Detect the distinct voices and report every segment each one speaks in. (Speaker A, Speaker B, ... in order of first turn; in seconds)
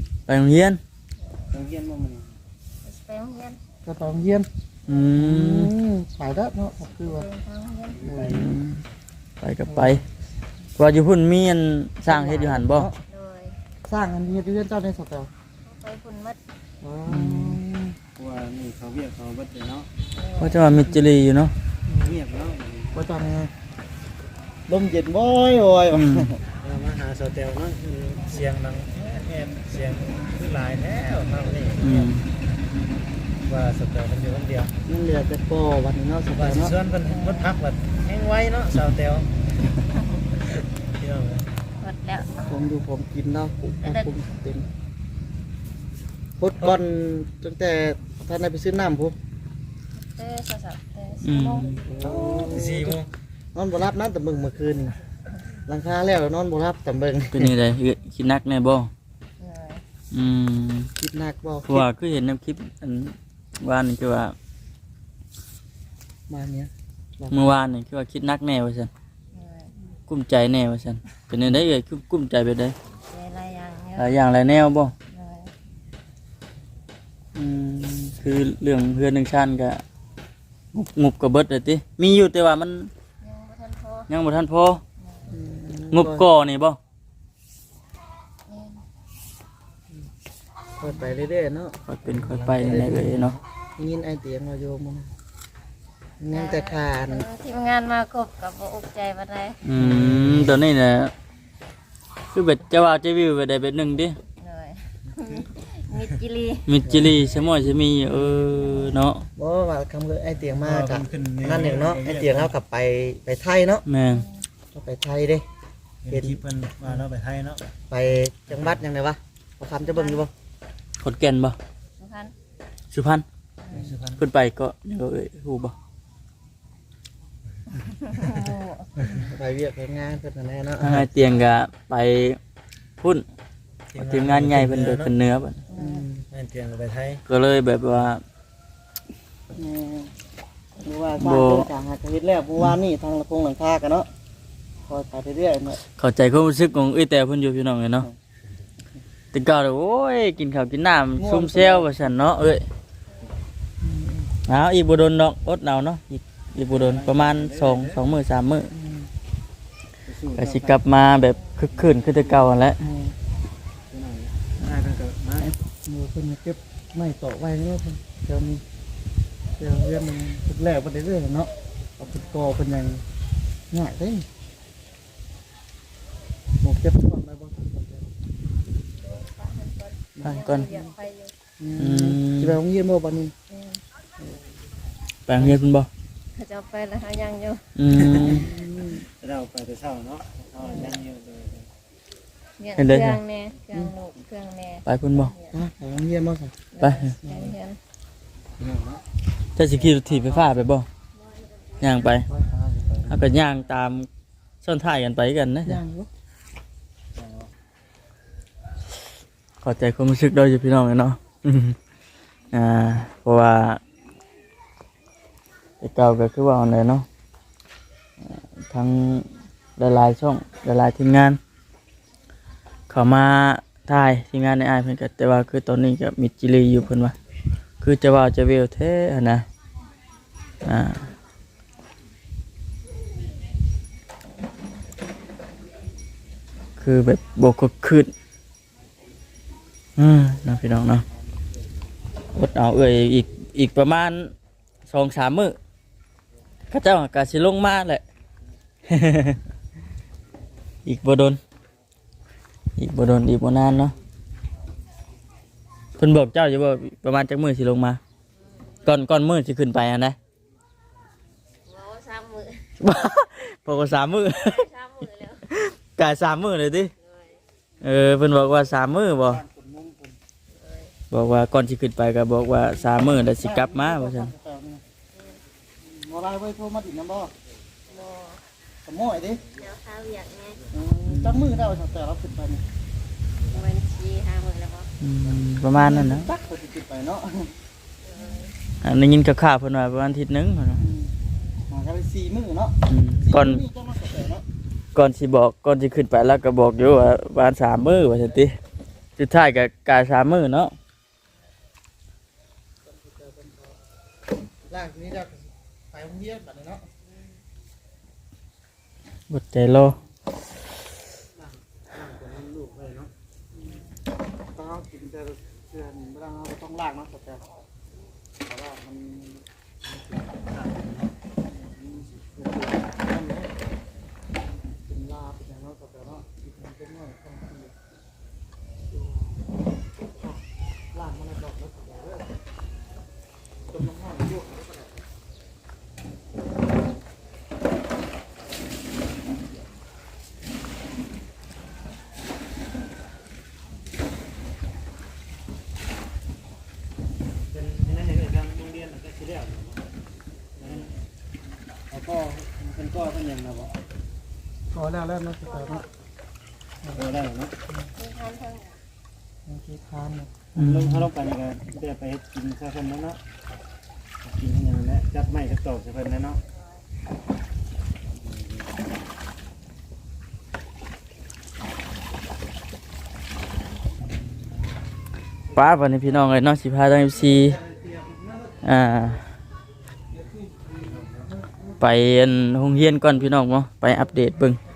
Speaker A: 0.3-0.8, 4.9-5.7, 8.2-8.8, 9.4-10.0, 10.8-12.9, 17.1-17.6, 20.4-21.5, 25.9-26.3, 31.8-32.3, 51.2-51.8, 57.3-58.9, 60.1-60.9, 61.7-64.3, 67.3-68.9, 70.1-72.8, 74.0-74.9, 77.3-79.8, 80.7-82.9, 84.1-84.8, 85.9-86.8, 91.9-93.3, 99.6-101.1, 102.3-104.2, 106.7-109.3, 113.9-114.2, 121.0-121.6, 122.9-123.2, 124.2-125.8, 130.8-132.4, 133.0-133.2, 134.0-135.6, 137.3-138.2, 141.2-141.7, 146.0-148.1, 149.3-152.7, 154.5-158.7, 160.4-162.8, 180.2-180.7, 181.8-182.6, 185.3-185.9, 187.8-188.5, 192.8-193.2, 194.9-195.3, 196.8-197.1, 199.6-200.9, 201.8-202.3, 203.1-204.1, 204.6-205.8, 209.6-211.8, 212.5-213.8, 215.8-217.1, 218.2-221.4, 222.9-227.2, 227.8-229.4, 230.6-231.1, 236.8-238.1, 240.0-241.1, 242.3-244.3, 244.9-245.6, 246.7-248.0, 248.9-249.4, 250.8-251.4, 252.8-253.9, 256.0-258.0, 258.9-260.2, 262.8-264.7, 265.5-266.9, 267.8-269.4, 271.1-274.3, 281.1-281.6, 285.0-286.3, 288.8-290.8, 292.9-293.6, 294.9-298.6, 299.2-300.7, 309.3-309.9, 360.6-361.1, 375.5-377.6, 378.6-379.2, 381.8-384.6
Speaker B: 1.2-1.6, 2.8-3.6, 7.0-8.2, 13.1-13.6, 15.6-16.4, 20.1-20.6, 37.1-37.5, 41.8-42.3, 43.8-44.1, 50.0-51.8, 59.4-59.8, 69.3-69.8, 73.1-74.2, 75.1-75.5, 83.2-84.1, 85.0-85.3, 88.5-88.8, 96.3-99.6, 104.4-106.7, 114.1-114.4, 119.8-120.2, 122.0-122.3, 127.8-129.2, 135.7-136.1, 179.0-181.3, 183.5-183.8, 186.4-187.7, 190.6-191.0, 192.6-195.6, 196.7-197.8, 258.4-258.6, 261.7-262.7, 264.4-265.4, 267.0-267.4, 270.6-270.9, 277.9-278.4, 279.6-280.6, 283.5-284.9, 288.1-288.5, 358.0-358.8
Speaker C: 1.5-2.3, 8.0-8.5, 18.2-19.9, 22.0-22.9, 26.6-31.8, 33.4-34.7, 36.3-39.3, 40.5-41.5, 52.0-53.0, 110.6-112.5, 116.0-117.6, 123.7-124.2, 133.9-135.1, 136.3-137.2, 156.7-158.0, 160.1-160.8, 163.9-165.5, 189.2-191.7, 198.6-199.0, 202.6-202.9, 207.2-207.4, 312.1-313.0, 319.9-321.1, 347.5-349.8, 350.6-350.9, 351.9-353.8, 356.9-357.5, 360.6-363.2, 364.2-366.4
Speaker D: 3.9-4.5, 5.2-7.3, 8.0-8.5, 9.7-10.0, 12.1-13.0, 13.9-15.3, 16.8-18.0, 21.9-22.2, 22.9-23.5, 24.7-26.4, 31.8-32.1, 34.9-36.8, 42.4-44.7, 46.4-49.2, 51.8-53.0, 53.5-55.0, 55.7-57.5, 61.0-61.9, 66.3-67.4, 85.3-86.3, 90.8-95.1, 96.2-97.3, 99.8-100.6, 106.8-107.1, 109.4-113.8, 114.7-115.5, 117.9-120.3, 129.1-131.1, 135.7-136.2, 139.5-140.1, 140.8-144.1, 144.9-145.8, 151.2-152.1, 153.8-154.3, 158.7-159.1, 162.8-163.2, 165.4-168.6, 169.6-173.0, 173.7-174.2, 176.6-178.1, 181.6-183.3, 187.9-189.1, 195.5-196.6, 197.2-197.5, 205.7-206.1, 269.2-270.2, 273.2-274.8, 275.8-277.3, 278.9-279.4, 280.7-282.6, 285.7-287.5, 290.8-291.1, 291.7-292.8, 293.3-294.4, 302.9-303.8, 304.7-306.8, 312.0-313.1, 314.6-317.4, 318.5-319.4, 321.6-323.5, 324.9-327.7, 328.9-329.4, 330.9-332.3, 333.7-335.0, 354.7-355.9, 359.5-360.5